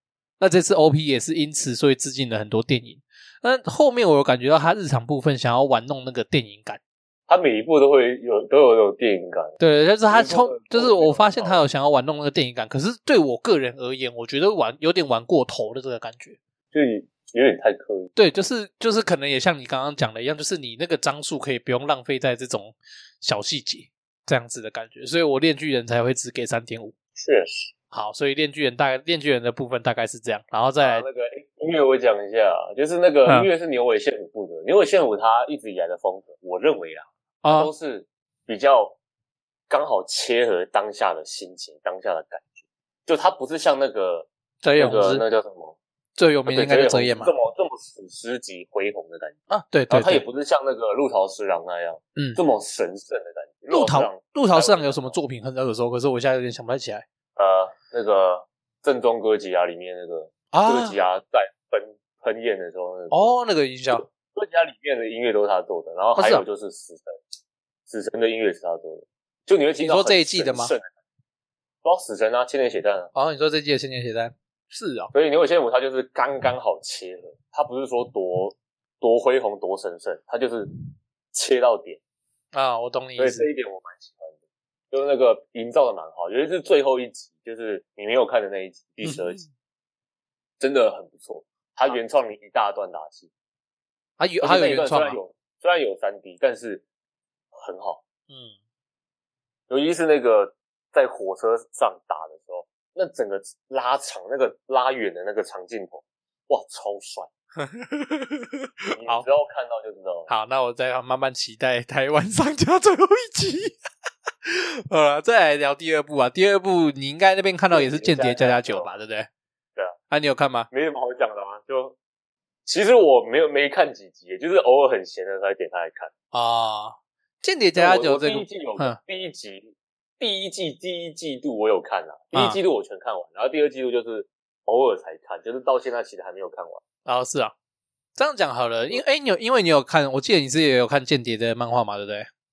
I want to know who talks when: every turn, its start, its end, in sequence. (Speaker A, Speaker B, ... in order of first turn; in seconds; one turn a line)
Speaker A: 0.4-6.8
Speaker B: 7.3-9.6
Speaker A: 9.6-16.4
Speaker B: 10.1-11.6
Speaker B: 16.7-18.1
Speaker A: 18.1-26.9
Speaker B: 27.2-27.7
Speaker A: 27.9-31.1
Speaker B: 30.8-39.0
Speaker A: 37.4-37.7
Speaker B: 39.7-42.5
Speaker B: 43.1-45.8
Speaker A: 44.6-45.2
Speaker A: 46.2-47.3
Speaker B: 46.5-49.4
Speaker A: 49.5-50.2
Speaker B: 49.9-55.2
Speaker A: 53.7-57.0
Speaker B: 57.4-63.3
Speaker A: 60.5-61.0
Speaker A: 63.1-64.1
Speaker B: 63.9-67.2
Speaker A: 66.2-66.4
Speaker B: 67.9-70.9
Speaker A: 69.8-70.7
Speaker B: 71.8-73.1
Speaker A: 73.1-75.1
Speaker B: 75.1-80.7
Speaker B: 81.3-82.0
Speaker A: 82.5-83.5
Speaker B: 83.2-84.3
Speaker B: 84.9-89.4
Speaker A: 89.0-89.5
Speaker B: 90.6-93.3
Speaker A: 94.2-95.2
Speaker B: 94.4-96.8
Speaker B: 97.5-98.0
Speaker A: 98.3-98.6
Speaker B: 99.7-107.3
Speaker A: 107.6-109.3
Speaker B: 108.9-110.3
Speaker A: 110.3-113.8
Speaker A: 114.5-119.3
Speaker B: 117.7-118.9
Speaker A: 120.1-120.7
Speaker B: 120.7-122.0
Speaker B: 122.7-126.1
Speaker A: 126.3-129.0
Speaker B: 127.8-136.8
Speaker A: 132.3-132.6
Speaker A: 137.1-137.5
Speaker A: 138.2-142.3